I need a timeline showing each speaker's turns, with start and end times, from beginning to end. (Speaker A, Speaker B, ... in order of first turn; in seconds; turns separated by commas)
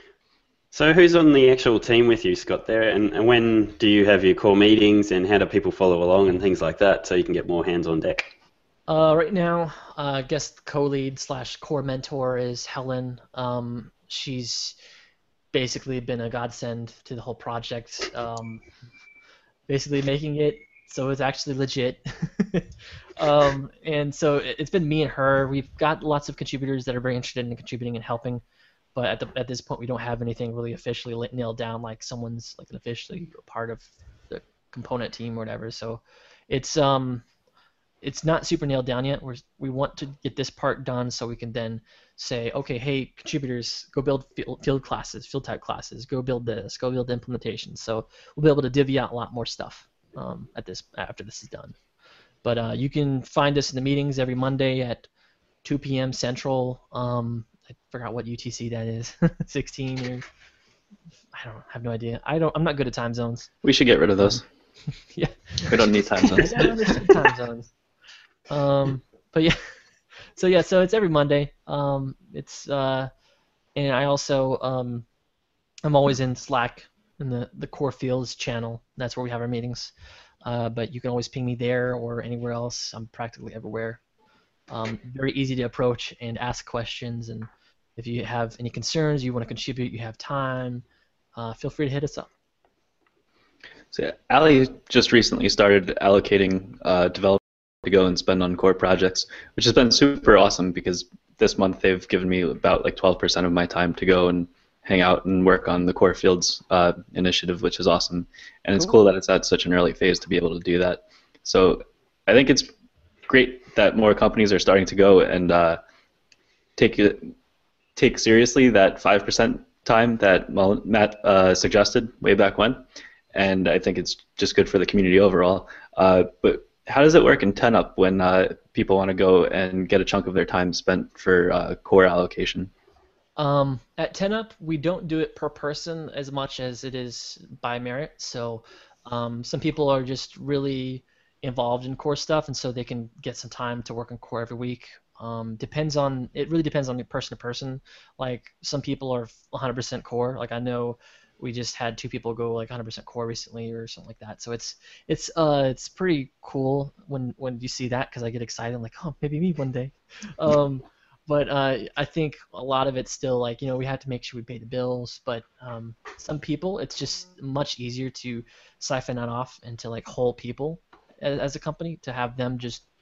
Speaker A: 0.7-8.3, Speaker B: 8.9-14.8, Speaker B: 15.5-18.6, Speaker B: 19.7-28.4, Speaker B: 28.9-37.2, Speaker B: 38.0-51.7, Speaker B: 52.4-55.1, Speaker B: 55.6-60.2, Speaker B: 61.3-63.5, Speaker C: 63.6-64.4, Speaker B: 65.1-65.7, Speaker C: 65.7-67.1, Speaker B: 66.2-67.7, Speaker B: 68.5-69.6, Speaker B: 70.4-73.1, Speaker B: 73.8-75.0, Speaker B: 75.8-79.9, Speaker B: 80.4-84.0, Speaker B: 84.7-90.8, Speaker B: 91.3-92.3, Speaker C: 93.9-112.7, Speaker C: 113.3-115.8, Speaker C: 116.8-117.3, Speaker C: 118.0-132.7, Speaker B: 133.4-172.8